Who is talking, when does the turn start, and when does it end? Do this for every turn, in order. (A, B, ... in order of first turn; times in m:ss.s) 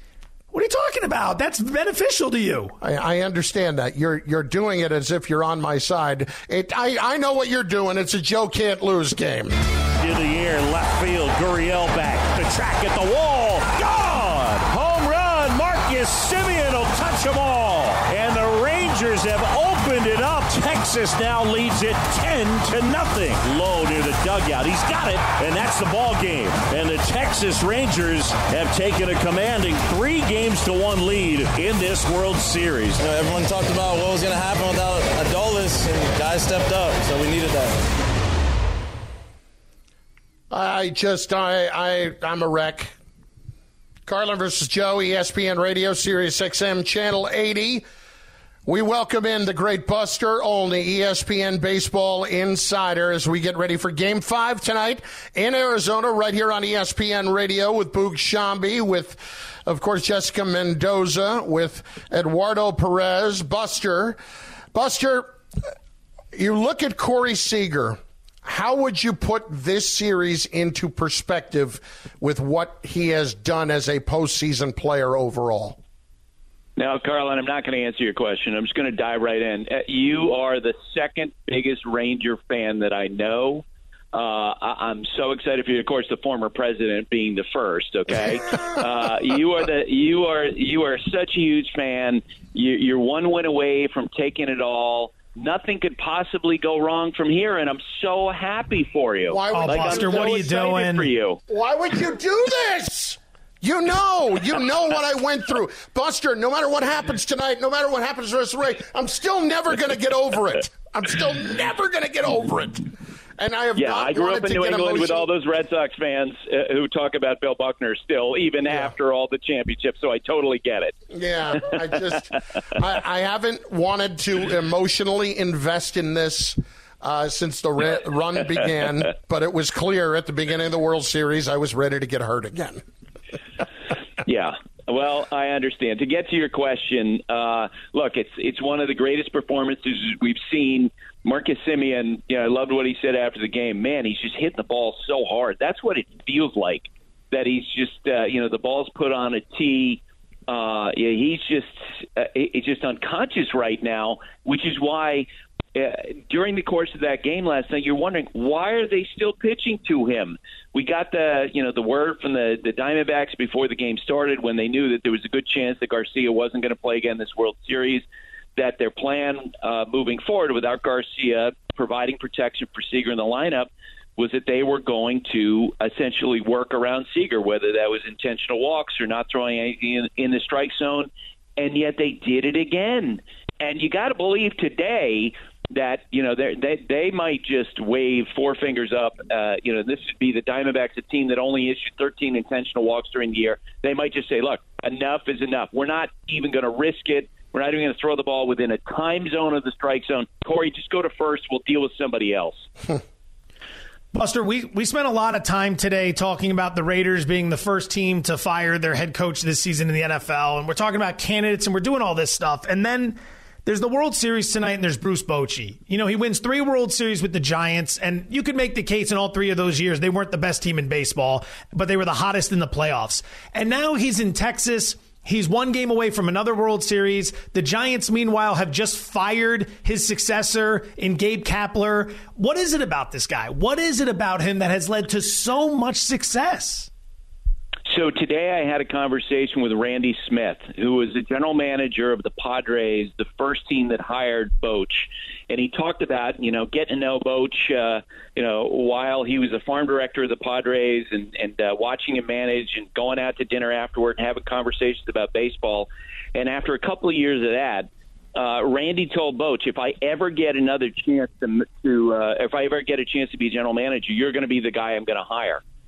0:00.5-0:02.8 A
0:02.8-0:09.6 B
0:09.9-0:33.0 C
0:33.0-0:37.8 D
0:40.5-0:42.9 B
0:44.1-0:47.8 B
0:48.7-1:04.2 B
1:04.7-1:05.4 B
1:06.3-1:15.8 B
1:16.8-1:41.4 E
1:39.3-1:40.4 B
1:39.5-1:41.1 A
1:41.5-1:55.3 B
1:53.8-2:00.9 E
2:01.1-2:12.8 B
2:14.2-2:48.0 E
2:48.6-3:22.7 E
3:24.1-3:56.9 A
3:57.9-4:25.6 E